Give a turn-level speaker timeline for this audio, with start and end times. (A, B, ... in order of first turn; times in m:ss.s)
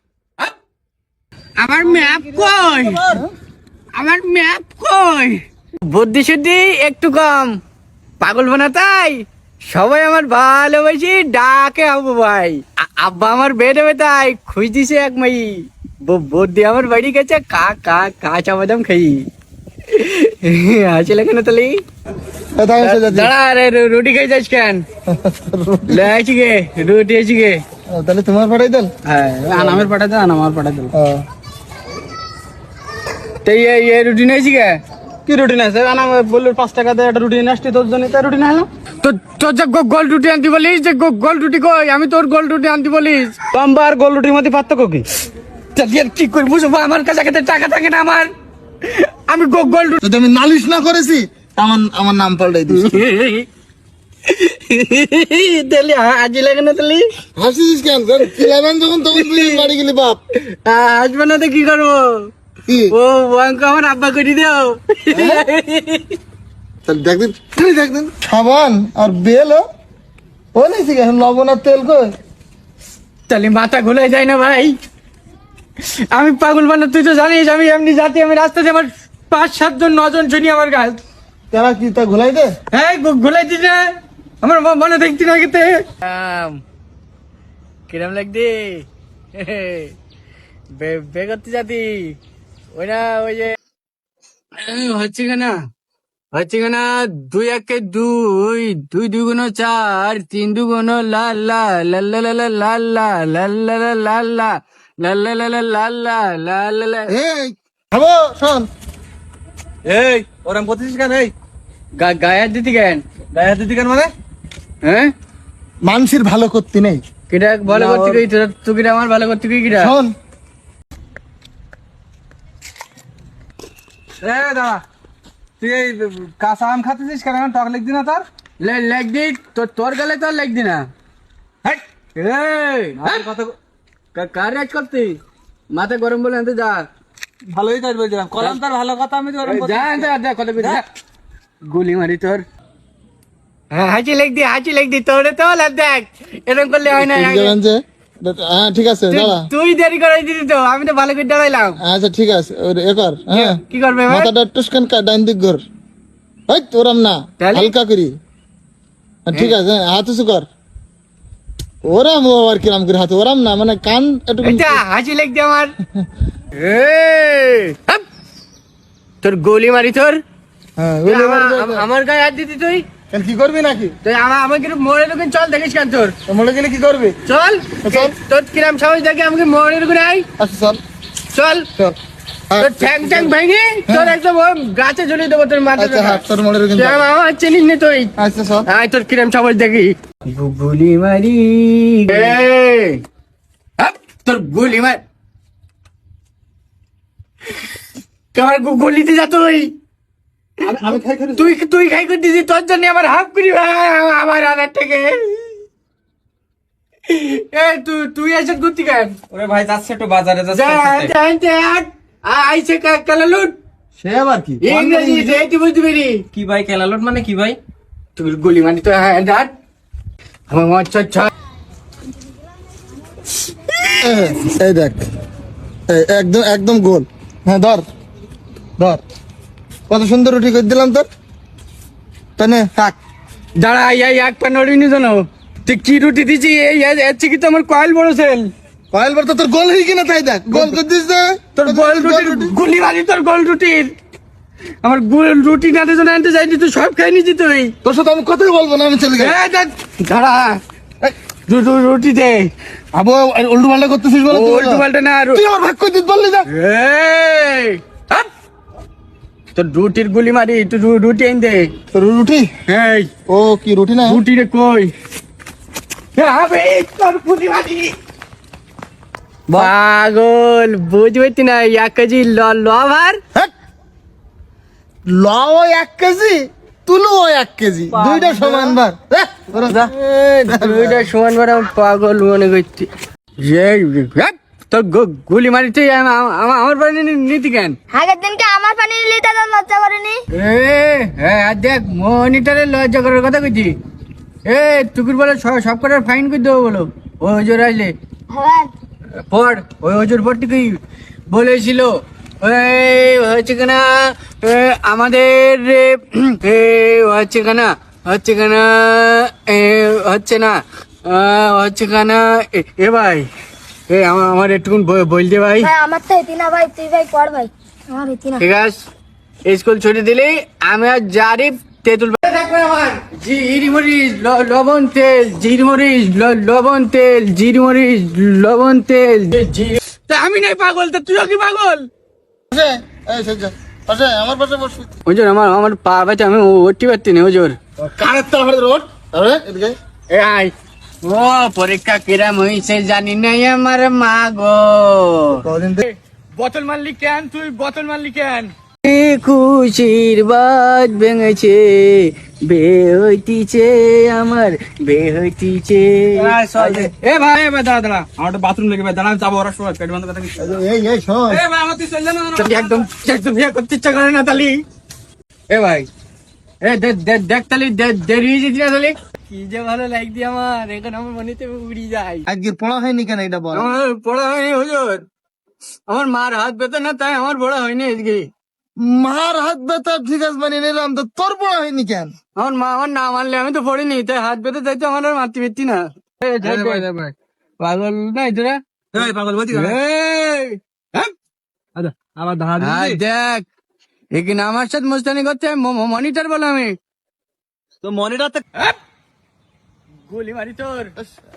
0:01.6-0:03.1 A
0:03.0-0:03.3 B
0:03.9-0:07.6 A
0:08.2-0:19.3 A
0:19.9-0:21.8 A
0:22.6-0:23.3 B
0:22.8-0:24.8 A
0:25.1-0:26.1 B
0:25.9-0:27.6 A
0:27.9-0:28.9 B
0:29.1-0:29.9 A
0:29.4-0:30.9 C
0:30.9-0:31.2 B
0:33.4-0:34.8 A
0:35.2-0:38.7 C
0:39.0-0:43.4 A
0:43.5-0:45.0 C
0:45.7-0:48.3 A
0:48.8-0:50.0 A
0:50.0-0:53.0 B
0:52.7-0:53.5 A
0:54.2-0:57.1 A
0:57.4-1:00.2 B
0:59.2-0:59.7 A
1:00.4-1:02.3 A
1:02.7-1:02.9 B
1:02.9-1:06.2 A
1:05.1-1:05.5 B
1:06.9-1:09.6 B
1:10.6-1:12.1 B
1:13.3-1:14.8 A
1:15.8-1:21.0 A
1:21.5-1:22.5 B
1:22.7-1:26.6 A
1:27.9-1:30.0 A
1:30.7-1:32.2 A
1:32.7-1:33.6 A
1:34.6-1:35.7 A
1:36.3-1:47.1 A
1:47.1-1:48.7 B
1:49.9-1:51.3 C
1:52.0-1:53.0 A
1:53.3-1:54.1 C
1:54.8-1:55.1 A
1:55.8-1:57.0 B
1:57.3-2:00.0 A
1:57.7-1:58.2 C
1:59.7-2:00.2 B
2:04.2-2:04.8 C
2:05.6-2:08.2 C
2:08.6-2:10.9 A
2:12.2-2:13.2 A
2:13.0-2:13.6 C
2:14.1-2:15.2 A
2:15.7-2:16.9 A
2:17.5-2:20.8 C
2:19.4-2:20.8 A
2:21.6-2:22.4 A
2:23.7-2:27.6 A
2:26.9-2:29.5 B
2:29.1-2:31.8 A
2:31.8-2:35.6 B
2:33.3-2:34.3 A
2:36.5-2:38.1 B
2:37.4-2:37.7 A
2:39.3-2:40.5 B
2:41.8-2:44.8 B
2:44.4-2:45.8 A
2:46.5-2:48.0 A
2:49.2-2:50.2 A
2:50.8-2:51.9 B
2:51.1-2:52.8 A
2:53.1-2:53.9 B
2:54.0-2:56.2 A
2:56.3-2:57.2 B
2:57.2-3:00.3 A
2:57.8-2:58.2 B
3:00.4-3:00.8 B
3:01.3-3:01.7 A
3:02.5-3:03.3 B
3:02.6-3:06.2 A
3:03.9-3:04.2 B
3:05.8-3:07.0 B
3:06.8-3:08.1 A
3:08.2-3:08.6 B
3:08.7-3:13.0 A
3:13.8-3:15.0 A
3:18.3-3:19.7 A
3:20.6-3:21.5 C
3:21.4-3:25.6 A
3:27.1-3:29.2 A
3:29.3-3:31.1 C
3:30.5-3:33.6 A
3:34.0-3:35.0 C
3:34.6-3:35.1 B
3:34.6-3:36.2 A
3:36.3-3:37.6 C
3:38.2-3:39.5 A
3:40.5-3:41.3 A
3:43.8-3:45.0 B
3:45.9-3:47.9 B
3:49.9-3:51.1 B
3:52.4-3:53.0 B
3:53.6-3:58.5 A
3:58.9-4:02.6 B
4:00.5-4:00.8 A
4:01.6-4:03.9 A
4:04.8-4:07.7 A
4:07.8-4:09.4 B
4:09.2-4:10.6 A
4:11.5-4:12.5 A
4:12.9-4:16.5 B
4:14.3-4:15.4 A
4:16.5-4:18.3 A
4:19.5-4:21.7 A
4:21.9-4:22.5 B
4:22.7-4:23.1 A
4:23.3-4:24.2 B
4:24.0-4:24.9 A
4:26.1-4:28.0 A
4:29.5-4:33.2 A
4:35.1-4:39.9 B
4:38.0-4:38.3 A
4:38.1-4:38.8 C
4:39.6-4:47.8 A
4:40.5-4:41.1 B
4:47.9-4:50.2 D
4:50.3-4:53.8 A
4:54.4-4:57.9 A
4:58.3-4:58.7 D
4:59.3-5:13.3 A
5:13.9-5:15.7 A
5:15.6-5:18.4 D
5:18.4-5:18.8 A
5:19.4-5:31.9 A
5:32.5-5:34.9 B
5:35.1-5:37.6 A
5:37.8-5:39.8 B
5:40.1-5:58.1 A
5:45.4-5:45.8 B
5:56.1-5:56.9 C
5:58.2-6:00.5 C
6:00.4-6:01.4 B
6:01.3-6:02.8 C
6:02.3-6:04.6 A
6:05.5-6:05.9 A
6:06.6-6:12.2 A
6:12.3-6:13.8 B
6:13.5-6:15.0 A
6:15.9-6:18.3 A
6:18.8-6:22.1 B
6:22.4-6:26.9 A
6:26.4-6:27.1 C
6:27.6-6:28.6 A
6:28.9-6:29.8 C
6:29.5-6:31.1 A
6:31.8-6:33.0 C
6:32.6-6:33.4 A
6:34.1-6:36.8 A
6:37.8-6:38.4 C
6:40.1-6:40.9 A